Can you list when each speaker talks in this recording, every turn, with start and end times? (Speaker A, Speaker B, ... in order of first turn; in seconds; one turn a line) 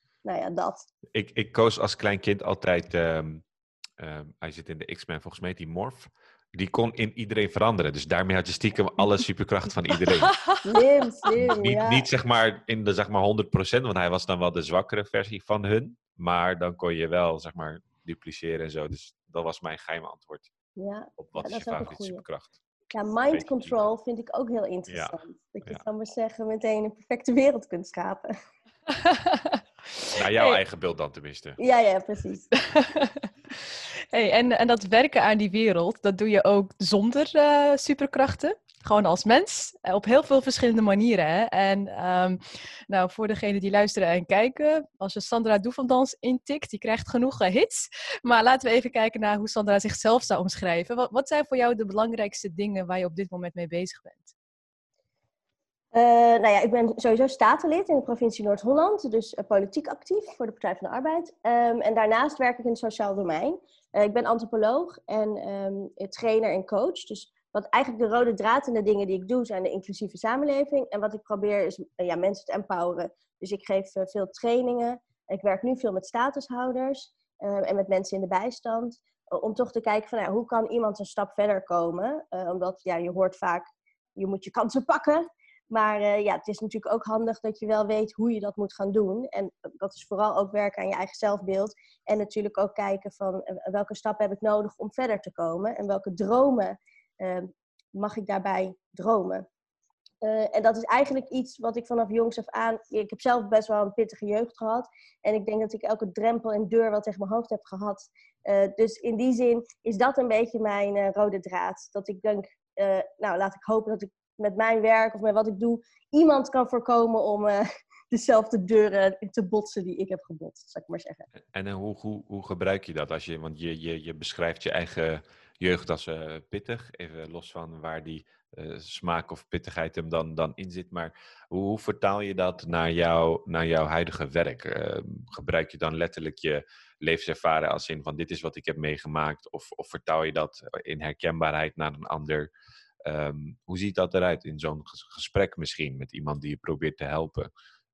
Speaker A: 0.2-0.9
Speaker B: 1.1-3.4
Speaker B: 4.0-10.3
Speaker C: 10.1-10.8
Speaker A: 10.6-12.1
Speaker B: 11.3-20.5
Speaker A: 20.8-22.2
Speaker B: 21.2-22.6
Speaker A: 22.9-28.3
Speaker B: 23.3-23.8
Speaker B: 24.9-25.8
Speaker C: 28.9-30.6
Speaker B: 30.1-31.6
Speaker A: 31.6-32.5
Speaker C: 32.6-54.3
Speaker A: 55.9-99.5
Speaker A: 100.2-121.2
Speaker B: 121.5-142.5
Speaker B: 143.0-147.5